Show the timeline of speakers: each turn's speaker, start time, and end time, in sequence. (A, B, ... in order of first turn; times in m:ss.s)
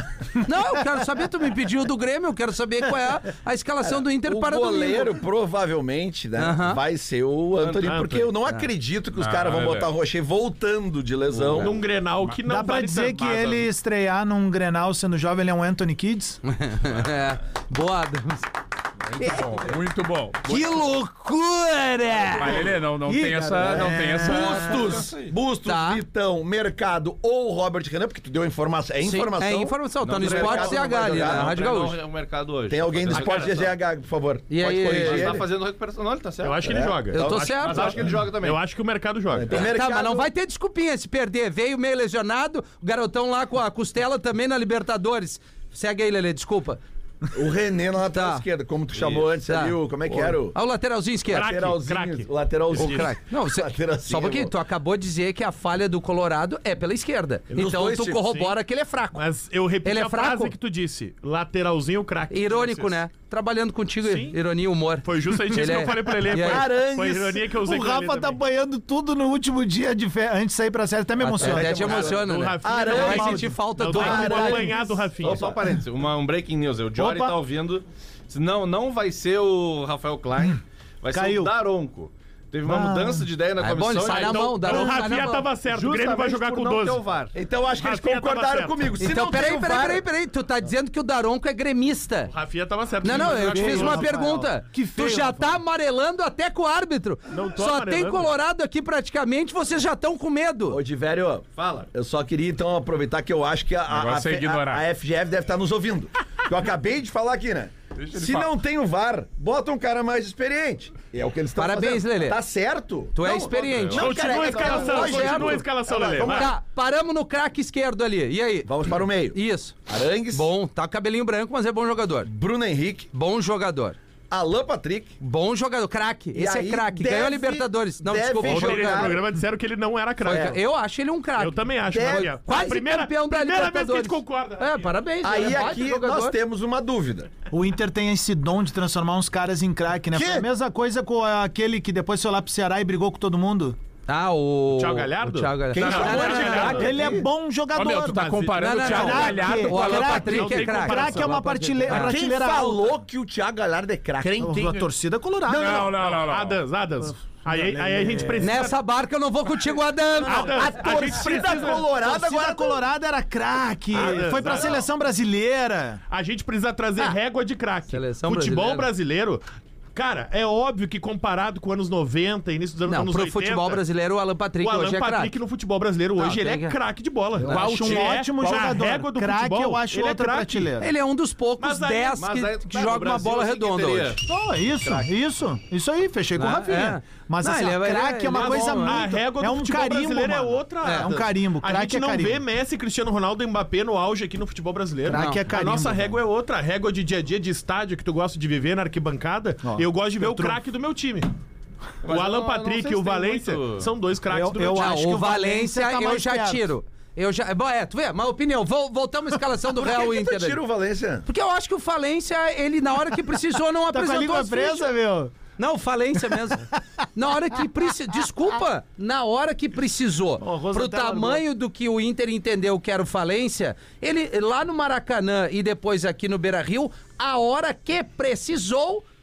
0:00.4-0:05.2 A
0:03.8-0:11.8 B
0:06.4-0:06.8 A
0:07.6-0:08.0 C
0:07.8-0:08.3 D
0:09.1-0:09.9 E
0:11.3-0:11.7 C
0:11.6-0:13.5 D
0:12.4-0:16.4 F
0:16.4-0:18.5 A
0:19.2-0:20.8 E
0:20.5-0:22.7 A
0:22.3-0:25.0 E
0:23.0-0:24.6 F
0:23.6-0:31.6 B
0:24.7-0:25.3 C
0:25.6-0:26.0 A
0:29.0-0:32.0 A
0:30.0-0:33.7 C
0:32.7-0:35.5 B
0:33.1-0:33.6 D
0:34.5-0:35.3 A
0:34.9-0:36.8 C
0:36.4-0:39.7 D
0:36.7-0:38.2 B
0:37.1-0:37.9 A
0:37.5-0:38.6 C
0:39.3-0:40.3 B
0:39.5-0:46.8 A
0:47.3-0:50.6 B
0:48.1-0:48.4 A
0:48.9-0:49.3 C
0:49.4-0:51.5 A
0:51.3-0:53.1 D
0:51.3-0:54.5 B
0:52.7-0:59.2 A
0:57.5-0:58.5 D
0:57.6-0:58.2 B
0:59.1-1:03.0 D
0:59.8-1:00.5 A
1:02.3-1:06.6 A
1:04.0-1:04.4 D
1:05.0-1:08.4 D
1:06.3-1:07.4 B
1:07.6-1:11.9 F
1:11.2-1:14.7 A
1:11.4-1:15.5 B
1:11.6-1:15.5 D
1:13.0-1:13.4 F
1:15.2-1:24.9 C
1:21.1-1:21.5 F
1:22.6-1:23.3 F
1:23.6-1:25.5 A
1:24.1-1:27.0 D
1:25.7-1:27.3 C
1:27.3-1:30.0 B
1:27.7-1:28.9 D
1:29.0-1:32.3 A
1:32.3-1:34.2 D
1:33.0-1:40.8 A
1:33.1-1:35.6 F
1:37.3-1:38.3 D
1:40.7-1:56.5 B
1:41.6-1:41.9 C
1:43.9-1:44.8 E
1:48.0-1:48.5 E
1:51.6-1:52.4 A
1:53.1-1:55.6 A
1:53.5-1:54.3 C
1:53.9-1:56.5 D
1:56.2-1:59.8 A
1:58.6-2:00.5 B
2:00.3-2:02.3 A
2:02.2-2:03.1 B
2:03.1-2:04.0 A
2:04.3-2:05.1 B
2:05.2-2:09.1 A
2:06.3-2:09.2 B
2:08.4-2:10.6 D
2:10.2-2:16.3 A
2:10.3-2:10.6 B
2:11.4-2:15.7 D
2:11.9-2:12.3 B
2:15.2-2:17.3 B
2:17.5-2:23.8 F
2:20.1-2:20.5 B
2:24.1-2:27.0 A
2:24.7-2:27.0 D
2:25.7-2:27.3 B
2:25.9-2:26.2 E
2:26.8-2:32.9 F
2:27.7-2:30.8 E
2:28.3-2:31.9 D
2:28.6-2:32.1 A
2:31.9-2:34.8 B
2:34.2-2:35.9 F
2:35.5-2:36.6 E
2:35.5-2:35.9 B
2:36.0-2:38.8 D
2:37.4-2:38.6 F
2:38.4-2:40.8 A
2:40.2-2:42.8 B
2:40.2-2:41.9 D
2:41.8-2:46.0 F
2:43.9-2:44.8 D
2:44.0-2:44.5 B
2:46.1-2:49.4 D
2:47.9-2:48.9 A
2:49.9-2:53.8 D
2:52.9-2:55.3 A
2:54.6-3:00.8 D
2:56.2-2:56.7 A
2:57.4-3:00.9 F
2:57.6-2:58.0 E
3:00.8-3:04.2 A
3:01.6-3:02.2 D
3:02.2-3:04.2 C
3:04.2-3:12.4 F
3:04.8-3:05.1 C
3:06.4-3:09.0 A
3:08.3-3:21.3 D
3:10.8-3:11.1 A
3:15.1-3:16.2 F
3:15.1-3:15.4 A
3:19.6-3:20.6 F
3:22.0-3:23.9 C
3:22.0-3:25.0 D
3:24.3-3:26.7 F
3:24.7-3:30.6 A
3:29.7-3:31.2 B
3:31.2-3:34.9 A
3:33.9-3:35.3 F
3:35.6-3:49.0 A
3:36.3-3:36.6 F
3:40.4-3:41.4 F